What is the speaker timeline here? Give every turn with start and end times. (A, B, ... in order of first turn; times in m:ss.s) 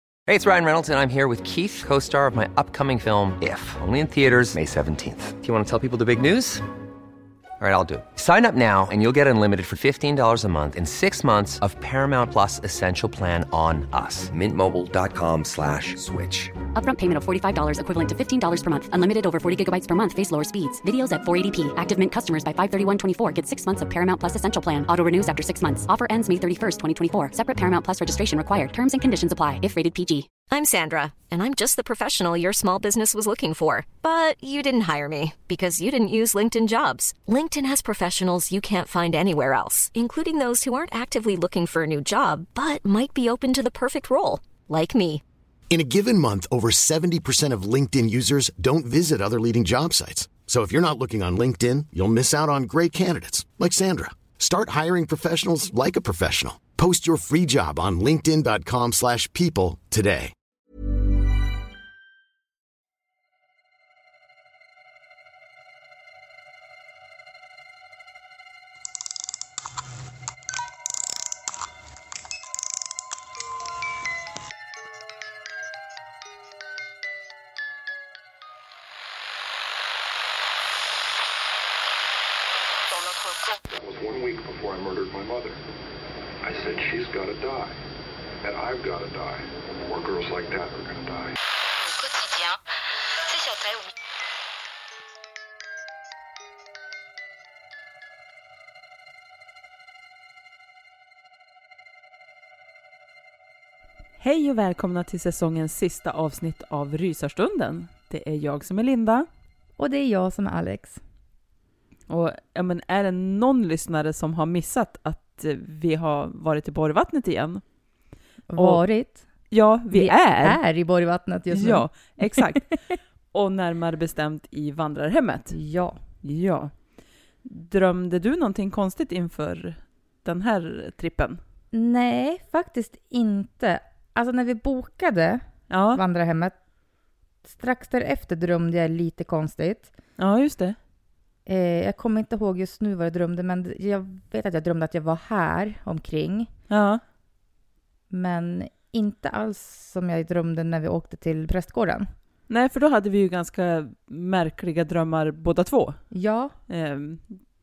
0:00.3-0:06.6 A
0:07.6-0:16.5 A
0:16.8-0:30.3 B
0:30.5-0:45.2 C
0:45.7-1:00.3 D
1:22.9-1:23.6 E
1:23.7-1:25.6 F
1:26.4-1:27.8 F
1:28.4-1:31.4 F
1:31.8-1:32.6 E
1:33.1-1:33.9 E
1:44.2-1:49.3 G
1:49.8-1:51.0 H
1:52.1-1:57.6 G
1:58.5-1:59.2 H
1:58.6-1:58.8 G
1:59.5-2:00.6 G
1:59.9-2:02.8 H
2:01.5-2:02.7 G
2:03.3-2:05.6 G
2:05.5-2:06.0 H
2:06.2-2:06.7 G
2:07.4-2:11.4 G
2:11.7-2:16.6 H
2:15.7-2:16.0 G
2:17.4-2:19.9 H
2:20.2-2:20.8 G
2:21.5-2:26.5 H
2:26.7-2:27.0 G
2:28.1-2:32.1 H
2:32.5-2:36.0 G
2:36.1-2:36.5 H
2:36.7-2:37.2 G